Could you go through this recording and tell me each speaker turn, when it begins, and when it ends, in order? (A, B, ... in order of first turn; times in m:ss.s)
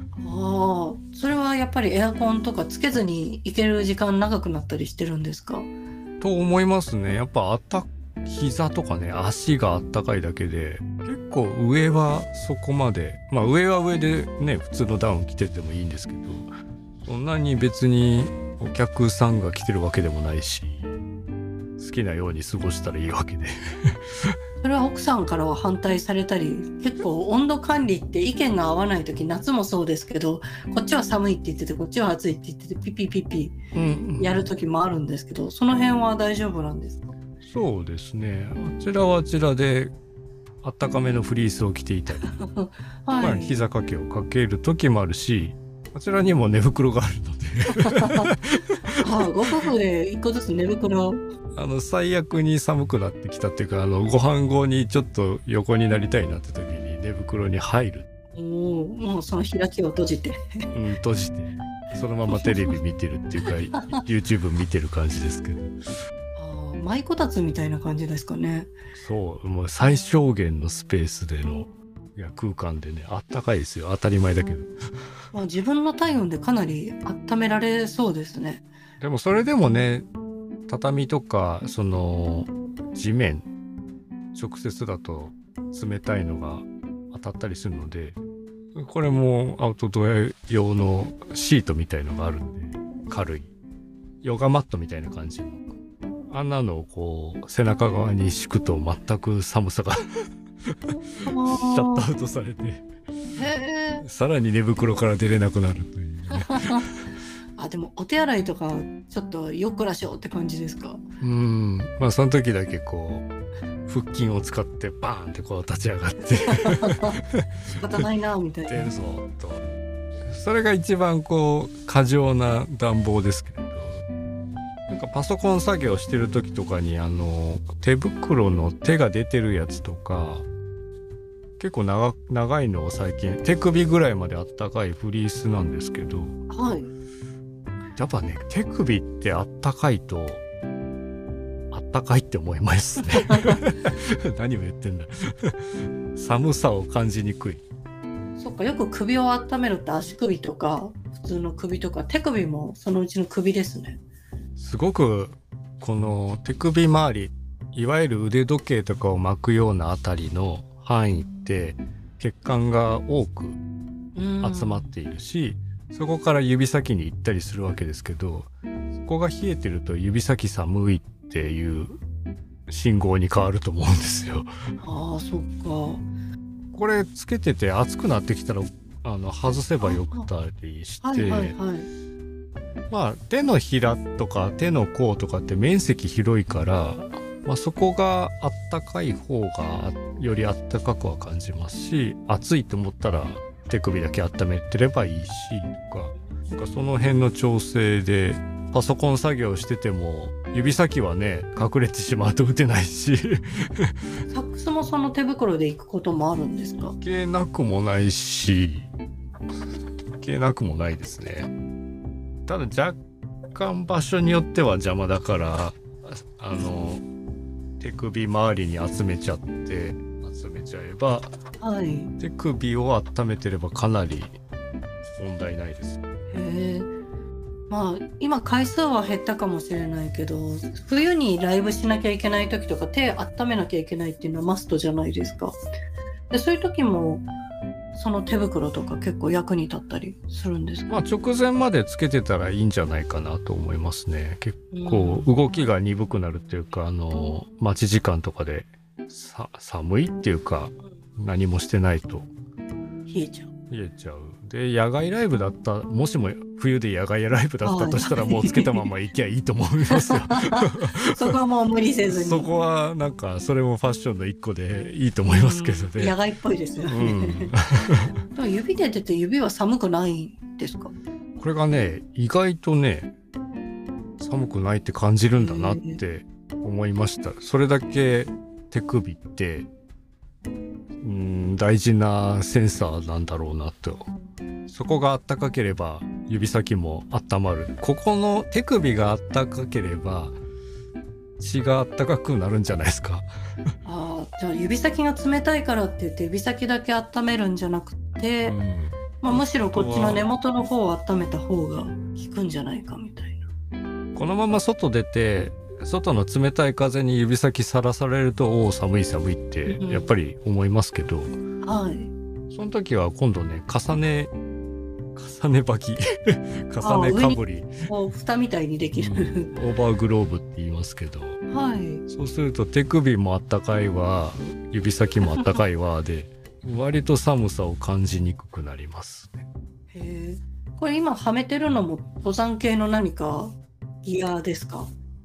0:00.2-0:05.7 A
0:06.2-0:16.5 B
0:17.0-0:20.9 B
0:21.8-0:24.4 B
0:24.6-0:33.6 A
0:33.7-0:34.5 B
0:34.2-0:37.2 A
0:37.4-0:39.9 B
0:40.6-0:42.3 B
0:42.3-0:43.5 A
0:43.2-0:49.0 B
0:47.7-0:48.3 A
0:49.0-0:51.2 A
0:51.5-0:58.1 B
0:58.4-1:00.7 A
1:00.7-1:05.8 B
1:02.3-1:02.7 A
1:03.7-1:04.0 A
1:06.4-1:08.7 A
1:09.0-1:14.7 B
1:15.3-1:18.6 A
1:19.0-1:20.1 B
1:20.7-1:23.5 B
1:24.3-1:28.2 B
1:28.8-1:33.5 B
1:34.2-1:35.7 B
1:36.3-1:40.3 B
1:40.9-1:42.9 B
1:41.2-1:42.0 A
1:43.4-1:44.0 A
1:44.0-1:47.0 B
1:46.3-1:46.8 A
1:47.6-1:51.0 A
1:51.2-1:53.3 B
1:53.9-1:57.5 B
1:56.5-1:57.2 A
1:57.8-1:58.9 A
1:58.7-1:59.6 B
2:00.2-2:04.0 B
2:04.9-2:10.5 B
2:11.6-2:16.4 B
2:16.5-2:16.9 A
2:18.0-2:20.4 B
2:21.7-2:27.6 B
2:23.2-2:23.6 A
2:28.4-2:34.0 A
2:34.6-2:43.6 B
2:44.2-2:44.9 A
2:44.4-2:48.5 B
2:49.0-2:52.0 B
2:52.7-2:54.5 B
2:54.8-2:56.0 A
2:56.7-3:01.6 B
2:59.9-3:00.3 A
3:01.0-3:01.9 A
3:02.9-3:24.0 B
3:24.3-3:27.0 A
3:26.9-3:28.9 B
3:30.2-3:31.5 B
3:32.5-3:33.0 B
3:33.5-3:37.0 B
3:37.8-3:41.3 B
3:41.6-3:42.1 A
3:42.2-3:44.4 B
3:45.2-3:46.0 B
3:46.3-3:46.9 A
3:47.7-3:55.6 A
3:56.3-3:57.3 A
3:57.9-4:00.9 A
4:00.9-4:12.3 B
4:04.7-4:05.3 A
4:13.1-4:13.5 A
4:13.7-4:21.4 B
4:17.6-4:18.8 A
4:19.9-4:22.5 A
4:22.1-4:26.2 B
4:25.3-4:27.5 A
4:26.9-4:28.1 B
4:28.3-4:30.9 A
4:31.4-4:33.1 B
4:34.2-4:39.7 B
4:35.4-4:36.0 A
4:41.0-4:44.1 B
4:44.7-4:50.4 B
4:51.4-4:53.3 B
4:53.8-4:58.6 A
4:58.4-5:00.3 B
4:59.2-5:03.5 A
5:04.2-5:11.4 B
5:09.7-5:10.1 A
5:11.6-5:12.1 A
5:12.5-5:14.3 B
5:15.2-5:17.8 B
5:16.8-5:19.5 A
5:18.9-5:21.4 B
5:21.5-5:22.0 A
5:22.1-5:29.4 B
5:29.9-5:34.9 A